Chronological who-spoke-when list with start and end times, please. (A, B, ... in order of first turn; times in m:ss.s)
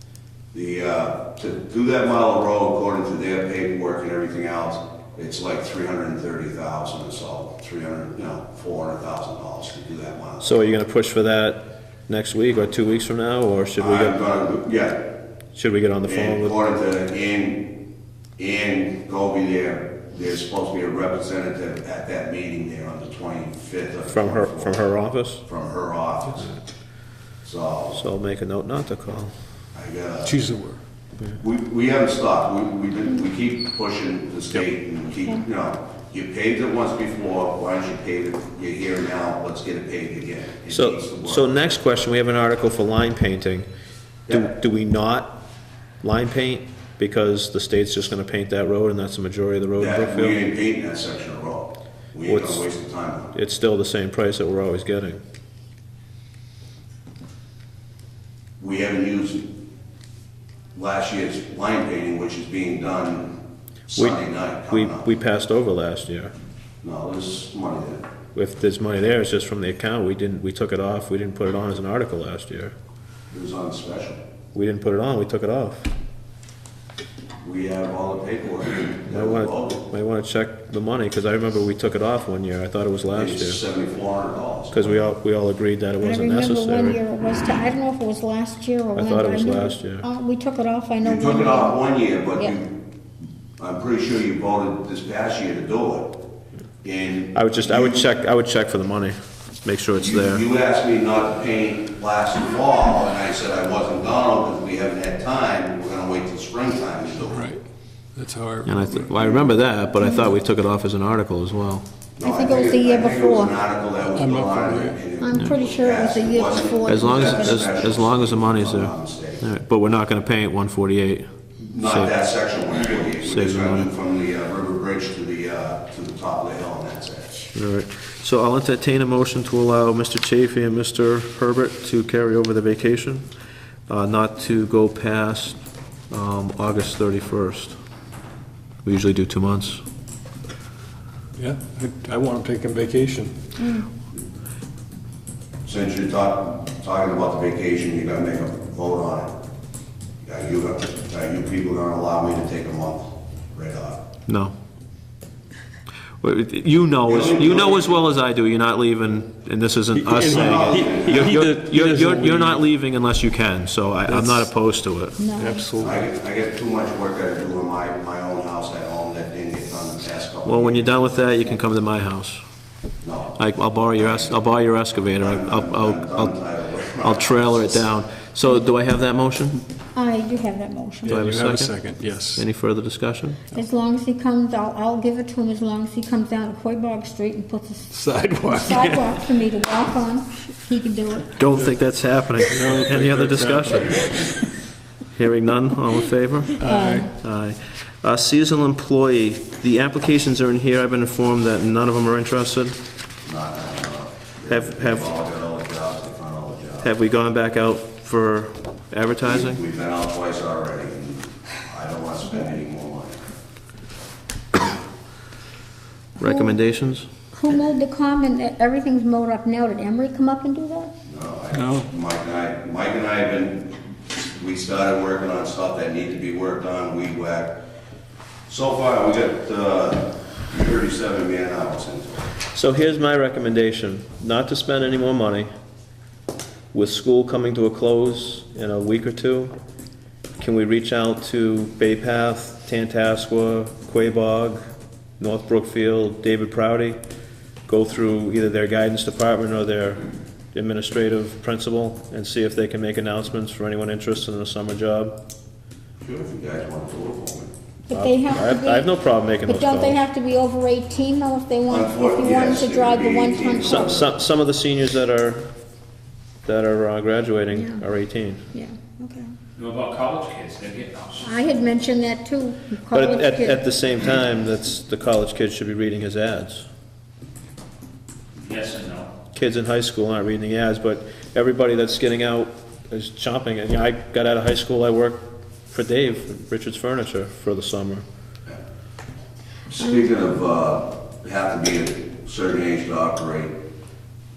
0:00.5-0:10.5 A
0:10.4-0:14.2 B
0:13.8-0:15.2 A
0:15.6-0:16.6 B
0:16.0-0:17.8 A
0:18.4-0:26.5 A
0:24.1-0:25.4 B
0:27.4-0:28.0 A
0:27.9-0:29.3 B
0:29.7-0:30.4 A
0:30.2-0:30.8 C
0:31.4-0:41.8 A
0:40.7-0:43.7 B
0:44.3-0:45.4 B
0:46.0-0:50.4 B
0:49.8-0:53.3 A
0:52.3-0:52.7 B
0:53.3-0:55.2 B
0:58.6-0:59.6 A
1:00.8-1:03.4 A
1:03.9-1:05.1 A
1:04.0-1:06.3 B
1:06.8-1:08.0 A
1:08.4-1:12.7 B
1:13.3-1:14.2 A
1:14.5-1:15.9 B
1:17.4-1:19.8 A
1:19.1-1:23.6 B
1:23.1-1:25.2 A
1:24.7-1:27.0 B
1:26.0-1:31.8 D
1:29.0-1:30.1 B
1:31.0-1:32.8 A
1:33.6-1:36.2 A
1:36.8-1:38.1 A
1:37.3-1:40.4 B
1:40.0-1:47.5 A
1:47.3-1:47.6 C
1:48.2-1:49.1 C
1:48.7-1:51.9 B
1:50.0-1:50.3 D
1:52.2-1:59.4 A
1:52.2-1:53.6 D
1:54.1-1:55.0 C
1:55.2-1:57.6 D
1:56.9-2:02.2 B
2:01.6-2:07.5 A
2:03.2-2:03.9 B
2:07.5-2:13.3 B
2:13.9-2:17.8 B
2:18.8-2:19.8 B
2:21.4-2:23.4 C
2:23.6-2:23.9 D
2:25.6-2:29.4 A
2:30.2-2:34.1 A
2:34.3-2:34.5 B
2:36.2-2:45.2 B
2:37.1-2:38.0 A
2:40.0-2:42.6 E
2:40.2-2:41.3 A
2:44.1-2:44.4 C
2:45.2-2:45.7 D
2:45.4-2:46.0 C
2:45.8-2:51.6 A
2:50.4-2:52.4 B
2:53.0-2:53.4 A
2:53.4-2:56.4 B
2:54.0-2:54.3 A
2:55.2-2:57.8 A
2:57.0-2:59.6 B
2:59.9-3:01.2 D
3:01.0-3:02.5 C
3:01.1-3:03.4 B
3:03.5-3:11.4 D
3:07.9-3:08.9 C
3:11.4-3:14.3 B
3:12.5-3:14.3 C
3:15.1-3:22.8 B
3:16.6-3:17.1 C
3:16.6-3:17.1 D
3:23.2-3:26.9 A
3:24.5-3:25.1 B
3:26.8-3:29.6 B
3:29.3-3:33.3 A
3:36.2-3:37.1 B
3:36.2-3:36.5 D
3:37.3-3:40.9 D
3:41.1-3:47.6 A
3:41.5-3:41.9 C
3:48.5-3:52.3 A
3:52.5-3:55.5 B
3:56.7-3:59.5 B
4:00.4-4:04.6 B
4:05.2-4:07.0 B
4:07.7-4:15.2 B
4:16.0-4:17.5 A
4:17.9-4:24.0 D
4:17.9-4:20.0 B
4:21.7-4:24.1 A
4:23.7-4:25.5 B
4:26.4-4:28.4 B
4:27.5-4:27.9 D
4:28.5-4:29.3 D
4:29.6-4:31.4 E
4:31.2-4:33.7 D
4:32.9-4:36.7 B
4:38.4-4:39.1 E
4:39.3-4:48.0 B
4:49.7-4:53.6 A